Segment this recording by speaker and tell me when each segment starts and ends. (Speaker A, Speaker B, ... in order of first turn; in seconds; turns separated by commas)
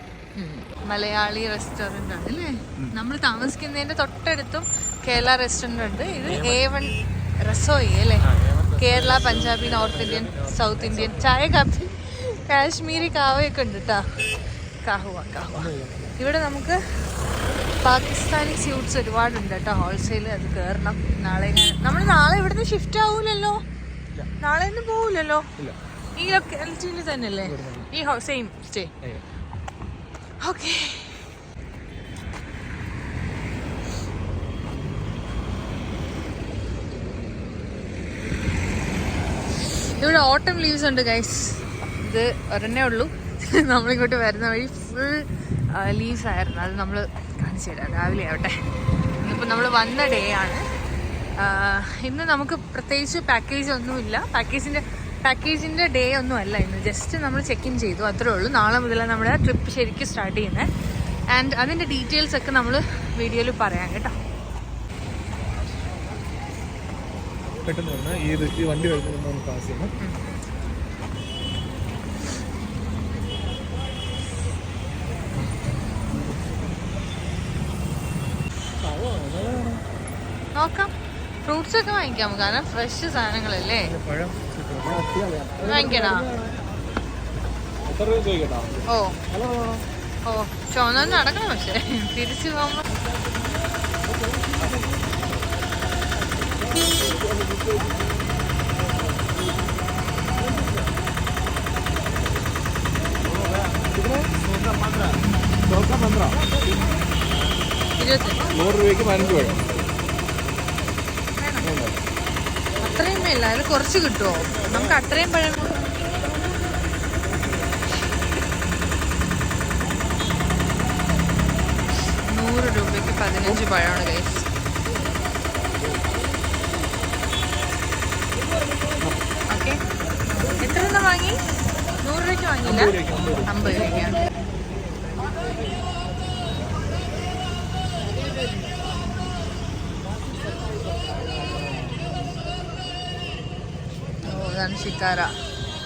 Speaker A: 0.3-17.2, Speaker B: 6.2-6.6, Speaker B: 8.2-11.3, Speaker B: 15.5-16.1, Speaker A: 17.8-23.6, Speaker A: 24.4-25.4, Speaker A: 26.1-28.9, Speaker B: 27.4-27.9, Speaker A: 30.4-31.4, Speaker A: 40.0-48.6, Speaker A: 49.2-50.6, Speaker A: 51.4-60.7, Speaker A: 61.3-64.1, Speaker B: 67.6-69.9, Speaker A: 70.0-70.2, Speaker B: 78.8-79.8, Speaker A: 80.5-80.9, Speaker A: 81.4-83.9, Speaker B: 83.8-86.3, Speaker A: 85.6-86.3, Speaker B: 87.9-88.8, Speaker A: 88.9-89.2, Speaker B: 89.4-89.8, Speaker A: 90.2-92.8, Speaker B: 103.9-104.3, Speaker B: 105.7-106.4, Speaker A: 108.0-108.5, Speaker B: 108.5-109.6, Speaker A: 111.4-111.7, Speaker B: 111.6-112.0, Speaker A: 112.8-115.9, Speaker A: 122.1-124.5, Speaker A: 129.5-129.8, Speaker A: 130.4-131.4, Speaker A: 132.0-134.2, Speaker B: 132.6-133.7, Speaker A: 144.2-145.4